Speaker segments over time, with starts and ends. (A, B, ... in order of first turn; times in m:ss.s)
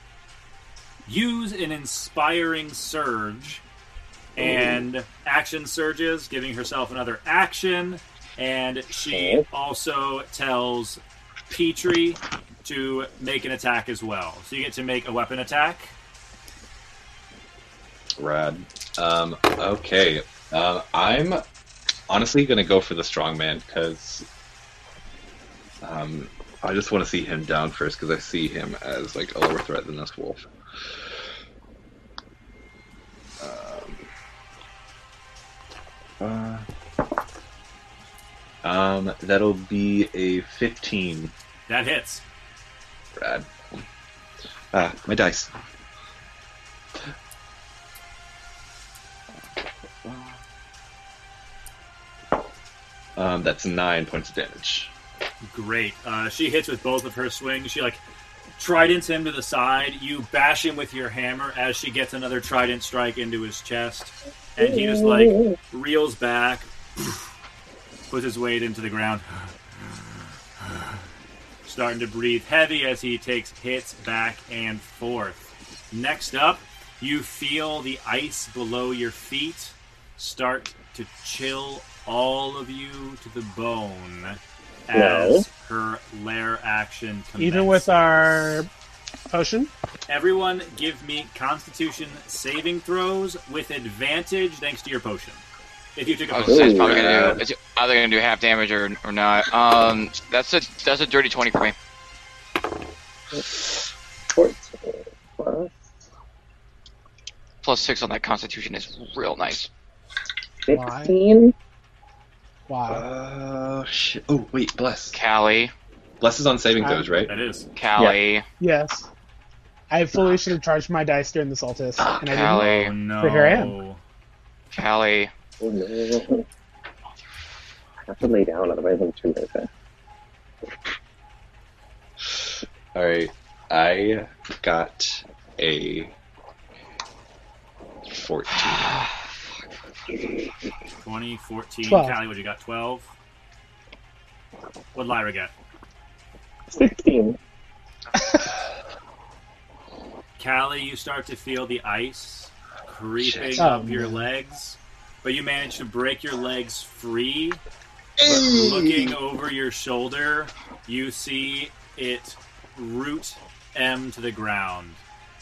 0:01.0-0:03.6 A
0:04.4-0:15.9 A
0:04.4-0:04.8 B
0:09.1-0:09.4 B
0:18.2-0:21.4 C
0:22.1-0:24.3 C
0:25.8-0:30.5 C
0:33.4-0:34.0 C
0:36.2-0:36.7 C
0:38.6-0:41.3 C
0:41.7-0:42.2 A
0:43.2-0:43.8 C
0:44.7-0:45.5 C
0:50.0-0:50.4 C
0:53.2-0:54.9 C
0:55.4-0:58.0 A
0:58.6-1:07.2 A
1:04.6-1:05.6 B
1:08.1-1:09.5 A
1:11.6-1:28.6 A
1:24.9-1:25.5 B
1:27.4-1:28.7 D
1:29.3-1:29.7 D
1:30.1-1:35.4 A
1:36.0-1:37.0 A
1:36.3-1:41.8 E
1:36.5-1:37.3 B
1:36.8-1:37.4 C
1:44.3-1:45.8 B
1:47.6-1:49.7 E
1:50.6-1:51.5 B
1:50.7-1:51.2 D
1:52.7-1:53.0 D
1:52.9-1:55.2 C
1:55.1-1:55.7 E
1:56.2-1:57.3 C
1:56.8-1:57.1 D
1:57.3-1:57.7 A
1:57.8-1:58.5 E
1:58.6-1:59.1 D
1:59.9-2:03.8 D
2:02.0-2:02.5 C
2:02.2-2:02.9 E
2:02.6-2:04.0 A
2:04.7-2:05.3 E
2:05.6-2:06.4 B
2:08.1-2:09.7 B
2:12.9-2:16.2 C
2:18.1-2:19.1 C
2:18.6-2:19.1 E
2:21.0-2:23.1 A
2:21.8-2:22.2 D
2:25.0-2:25.5 A
2:26.7-2:27.4 B
2:30.4-2:37.6 A
2:33.2-2:33.7 C
2:33.6-2:34.3 D
2:38.2-2:39.2 C
2:38.2-2:45.0 A